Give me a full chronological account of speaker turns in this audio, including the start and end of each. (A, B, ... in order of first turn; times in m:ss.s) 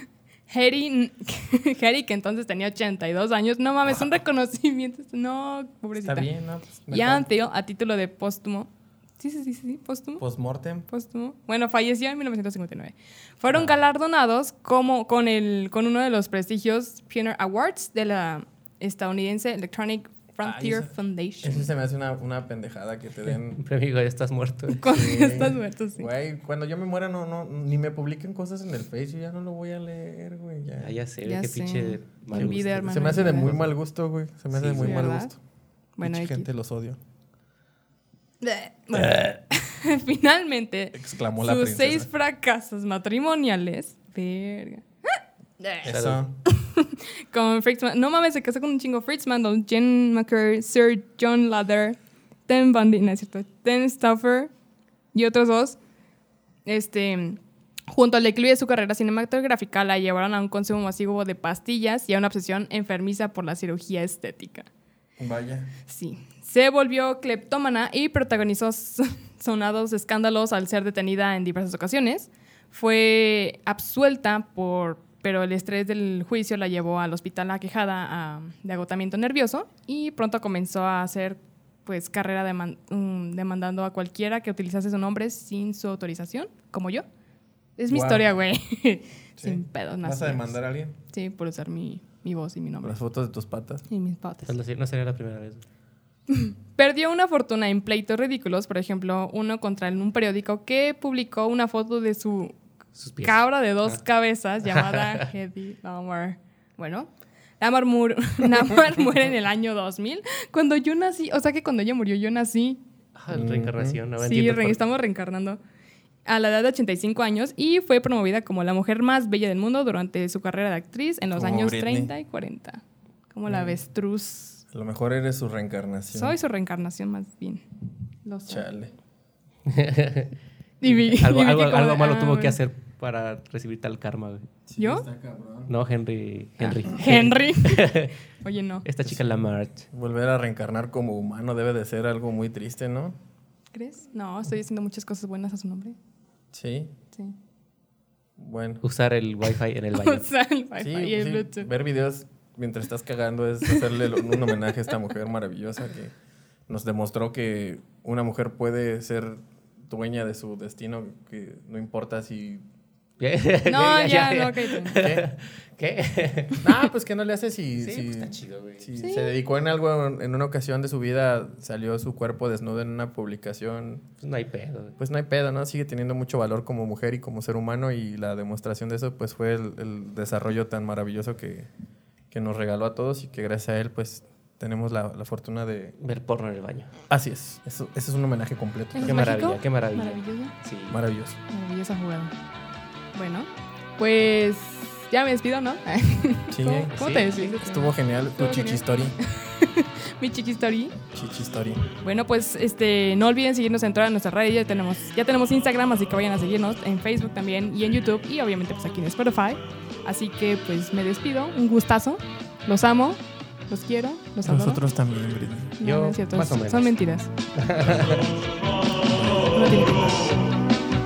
0:00.5-0:06.3 A
0:06.0-0:07.3 B
0:06.9-0:10.2 A
0:10.2-0:10.9 B
0:10.9-0:21.7 A
0:20.4-0:20.9 B
0:21.4-0:23.6 B
0:23.2-0:24.9 C
0:24.8-0:26.1 A
0:24.8-0:31.0 B
0:30.8-0:33.7 C
0:31.2-0:33.5 A
0:32.3-0:35.4 B
0:34.5-0:35.2 C
0:34.8-0:35.3 A
0:36.0-0:36.5 A
0:36.0-0:37.0 B
0:38.4-0:45.9 A
0:40.9-0:42.1 B
0:45.8-0:46.4 B
0:45.8-0:46.2 C
0:46.5-0:54.5 A
0:55.1-0:55.8 A
0:56.6-0:57.4 A
0:57.9-1:04.7 A
1:05.2-1:05.7 B
1:05.9-1:27.0 A
1:27.8-1:30.6 A
1:27.9-1:28.3 B
1:29.4-1:31.0 B
1:31.1-1:33.0 A
1:32.8-1:33.8 B
1:33.9-1:34.6 A
1:34.4-1:35.6 C
1:36.3-1:42.6 A
1:43.0-1:44.0 C
1:43.2-1:52.8 A
1:44.7-1:45.3 C
1:53.2-1:54.8 C
1:53.3-1:54.0 B
1:54.2-1:55.6 A
1:56.2-2:04.6 A
2:01.3-2:02.1 B
2:03.5-2:03.8 B
2:04.7-2:06.4 B
2:06.1-2:07.6 A
2:08.2-2:08.7 A
2:08.5-2:08.9 B
2:09.7-2:10.3 C
2:10.8-2:12.6 A
2:10.8-2:14.4 C
2:14.7-2:15.7 B
2:14.8-2:15.0 A
2:15.7-2:18.1 C
2:16.6-2:17.9 A
2:18.4-2:18.8 A
2:18.8-2:19.8 C
2:19.9-2:23.1 B
2:23.7-2:26.0 A
2:26.5-2:26.9 B
2:28.4-2:28.8 B
2:28.8-2:30.3 C
2:29.9-2:31.7 A
2:30.8-2:36.1 B
2:36.7-2:42.6 B
2:43.2-2:46.8 C
2:43.6-2:45.0 A
2:45.0-2:45.2 B
2:46.6-2:54.0 B
2:47.8-2:48.9 C
2:49.0-2:49.3 A
2:54.2-2:55.0 C
2:55.0-3:01.7 B
3:02.3-3:06.0 B
3:06.0-3:06.9 C
3:07.1-3:09.3 B
3:08.9-3:10.5 A
3:09.0-3:11.0 C
3:10.9-3:11.4 B
3:11.5-3:12.3 A
3:13.1-3:21.0 A
3:16.5-3:19.2 B
3:17.0-3:17.6 C
3:21.1-3:21.8 B
3:22.0-3:34.8 A
3:34.4-3:35.8 B
3:35.8-3:37.3 A
3:35.8-3:36.9 C
3:37.5-3:38.3 C
3:39.3-3:40.6 A